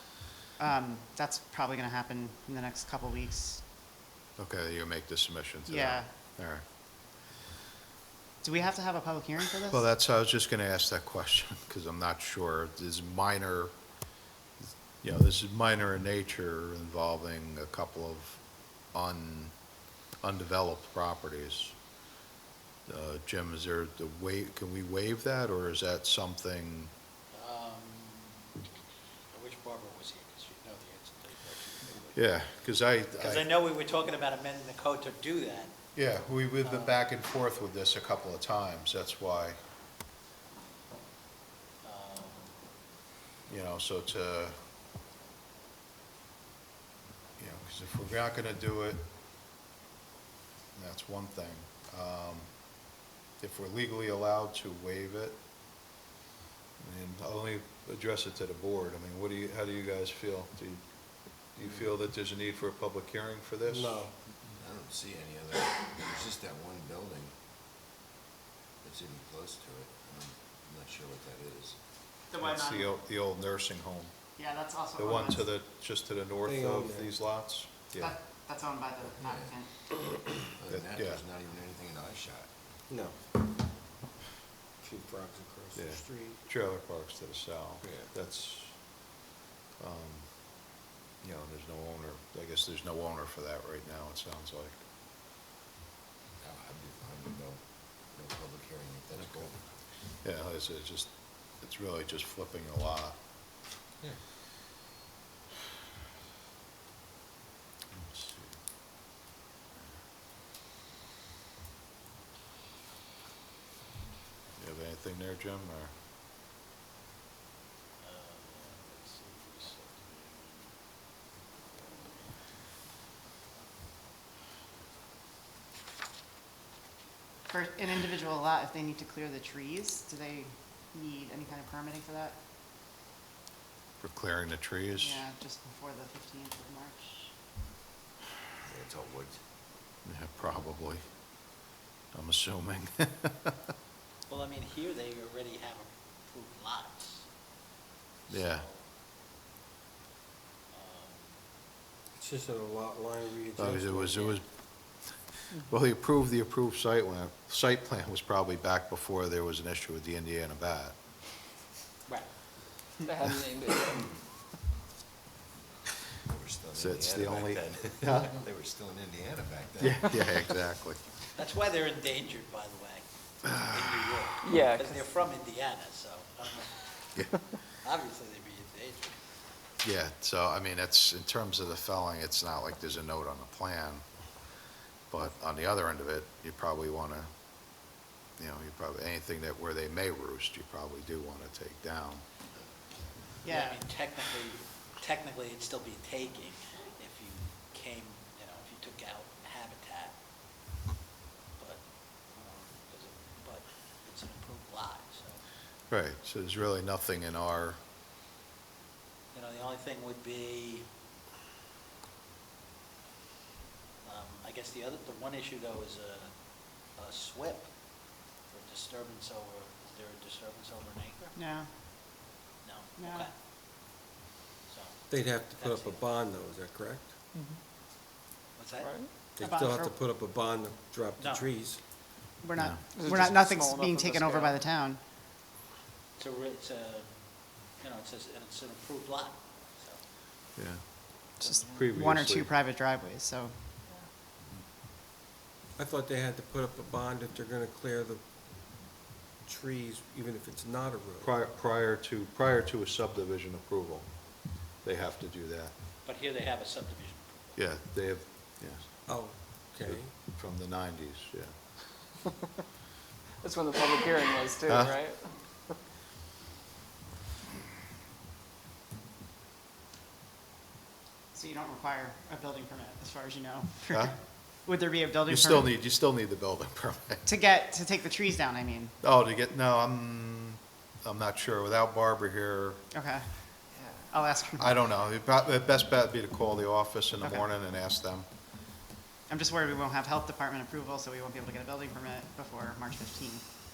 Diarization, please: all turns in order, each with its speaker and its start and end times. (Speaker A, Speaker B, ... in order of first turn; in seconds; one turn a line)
Speaker A: 0.6-3.7
Speaker B: 4.4-6.6
Speaker A: 5.7-6.1
Speaker A: 8.4-9.8
Speaker B: 9.7-13.7
Speaker B: 15.0-19.6
Speaker B: 20.2-21.8
Speaker B: 22.9-26.9
Speaker C: 27.3-28.7
Speaker C: 29.3-32.5
Speaker B: 32.1-33.5
Speaker C: 33.2-35.8
Speaker B: 36.0-39.6
Speaker C: 36.6-37.0
Speaker C: 41.8-42.5
Speaker B: 43.5-44.6
Speaker B: 47.4-49.1
Speaker B: 50.8-55.4
Speaker B: 56.8-64.0
Speaker D: 63.7-64.1
Speaker E: 64.5-67.3
Speaker E: 68.8-71.8
Speaker A: 72.3-72.8
Speaker B: 72.4-74.2
Speaker A: 74.4-75.4
Speaker B: 75.0-78.2
Speaker D: 76.5-77.1
Speaker A: 78.0-79.7
Speaker E: 79.2-79.5
Speaker E: 80.5-82.5
Speaker B: 80.7-81.2
Speaker D: 82.9-83.3
Speaker D: 84.8-86.4
Speaker B: 85.8-89.1
Speaker E: 87.8-88.1
Speaker B: 89.8-90.5
Speaker B: 91.2-94.8
Speaker E: 96.4-99.6
Speaker B: 99.2-99.5
Speaker B: 100.2-103.2
Speaker B: 107.9-108.6
Speaker B: 114.6-115.9
Speaker C: 118.0-120.8
Speaker C: 121.8-122.2
Speaker A: 127.5-132.4
Speaker B: 134.0-135.3
Speaker A: 135.0-137.3
Speaker E: 138.7-139.4
Speaker B: 140.1-141.0
Speaker B: 142.1-143.6
Speaker C: 144.3-147.3
Speaker C: 148.3-148.8
Speaker B: 148.3-148.7
Speaker C: 150.7-151.2
Speaker D: 152.2-154.3
Speaker B: 153.6-161.0
Speaker F: 163.1-164.1
Speaker E: 166.2-170.5
Speaker B: 166.7-168.4
Speaker B: 169.8-171.0
Speaker C: 171.4-177.1
Speaker F: 174.4-175.0
Speaker C: 177.8-179.2
Speaker B: 179.8-184.5
Speaker B: 185.1-187.3
Speaker B: 187.8-192.2
Speaker A: 193.4-193.8
Speaker C: 193.4-200.2
Speaker C: 201.6-205.4
Speaker B: 205.9-207.8
Speaker C: 209.3-210.9
Speaker C: 214.0-217.8
Speaker C: 218.4-221.4
Speaker A: 221.3-221.7
Speaker C: 222.6-223.3
Speaker A: 223.0-223.3
Speaker C: 224.7-226.1
Speaker D: 225.1-227.2
Speaker F: 227.3-227.6
Speaker C: 228.6-228.9
Speaker F: 228.8-229.1
Speaker D: 229.3-231.8
Speaker A: 229.4-230.0
Speaker C: 231.2-231.5
Speaker A: 232.4-235.0
Speaker B: 232.6-232.8
Speaker F: 232.9-234.7
Speaker C: 236.2-237.2
Speaker C: 237.7-240.0
Speaker B: 240.6-241.1
Speaker F: 241.4-241.9
Speaker A: 241.4-243.6
Speaker B: 241.7-242.5
Speaker D: 245.8-251.3
Speaker B: 251.2-255.7
Speaker C: 256.1-257.6
Speaker B: 257.6-259.3
Speaker D: 259.1-260.1
Speaker B: 259.8-261.8
Speaker F: 263.4-265.3
Speaker B: 264.7-265.1
Speaker A: 271.3-275.7
Speaker B: 273.9-274.2
Speaker B: 275.3-277.2
Speaker A: 277.3-278.9
Speaker B: 279.0-282.8
Speaker A: 282.9-284.7
Speaker B: 284.6-288.3
Speaker A: 289.3-293.5